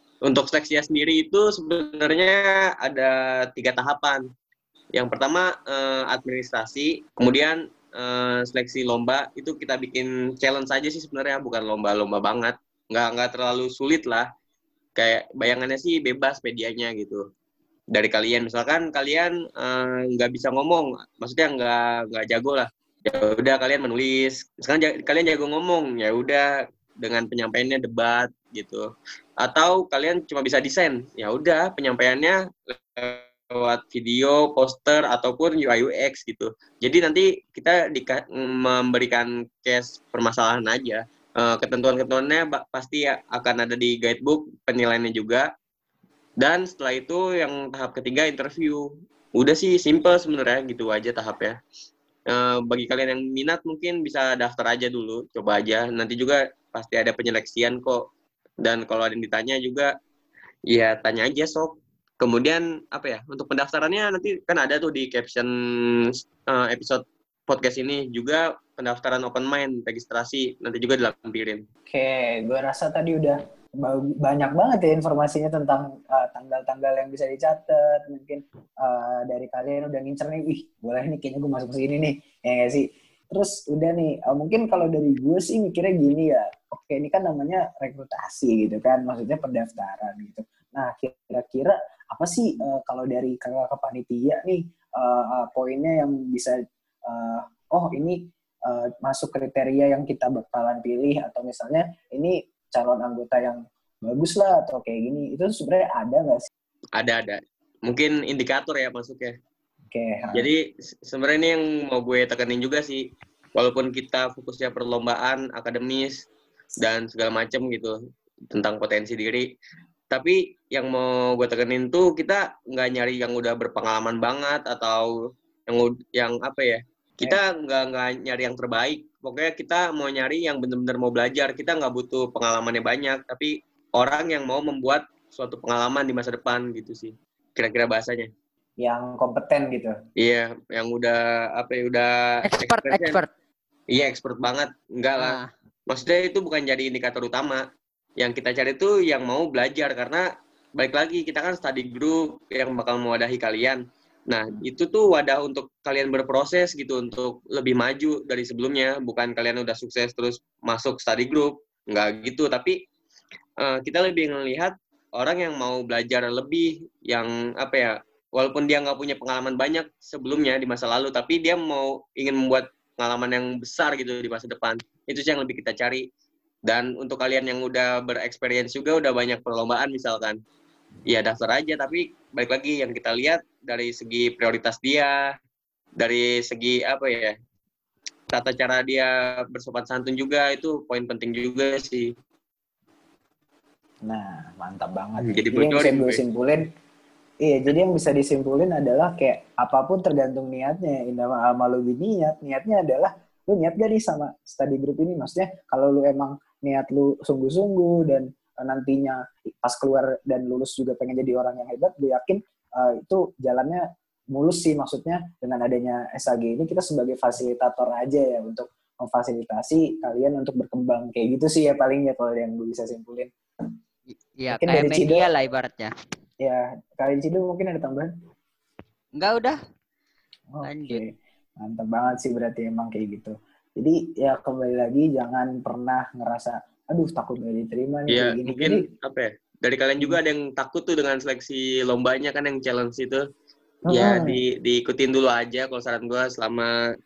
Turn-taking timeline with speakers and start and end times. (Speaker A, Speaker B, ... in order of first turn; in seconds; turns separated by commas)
Speaker A: 0.2-4.2, Speaker A: 4.9-14.3, Speaker A: 15.0-17.2, Speaker A: 17.9-26.5, Speaker A: 27.0-28.9, Speaker A: 29.4-45.5, Speaker A: 46.4-51.6, Speaker A: 52.3-58.1, Speaker A: 58.6-59.9, Speaker A: 60.7-71.6, Speaker B: 71.9-106.5, Speaker A: 107.0-109.3, Speaker B: 109.9-110.5, Speaker A: 110.3-113.0, Speaker A: 113.5-116.3, Speaker A: 116.8-117.9, Speaker A: 118.5-119.5, Speaker A: 120.1-125.1, Speaker A: 125.7-138.3, Speaker B: 138.8-139.9, Speaker A: 140.2-143.2, Speaker C: 142.4-143.3, Speaker A: 143.9-147.6, Speaker C: 145.2-145.5, Speaker A: 148.2-162.8, Speaker A: 163.6-176.0, Speaker A: 176.7-180.4, Speaker A: 181.1-185.3, Speaker A: 186.0-187.3, Speaker A: 188.3-192.1, Speaker B: 194.0-196.7, Speaker A: 195.2-196.2, Speaker B: 197.4-223.3, Speaker C: 224.3-225.9, Speaker B: 224.5-225.3, Speaker B: 226.4-228.1, Speaker C: 229.2-229.6, Speaker B: 230.5-238.8, Speaker C: 230.6-231.0, Speaker A: 238.1-243.2, Speaker B: 243.9-244.4, Speaker A: 243.9-246.7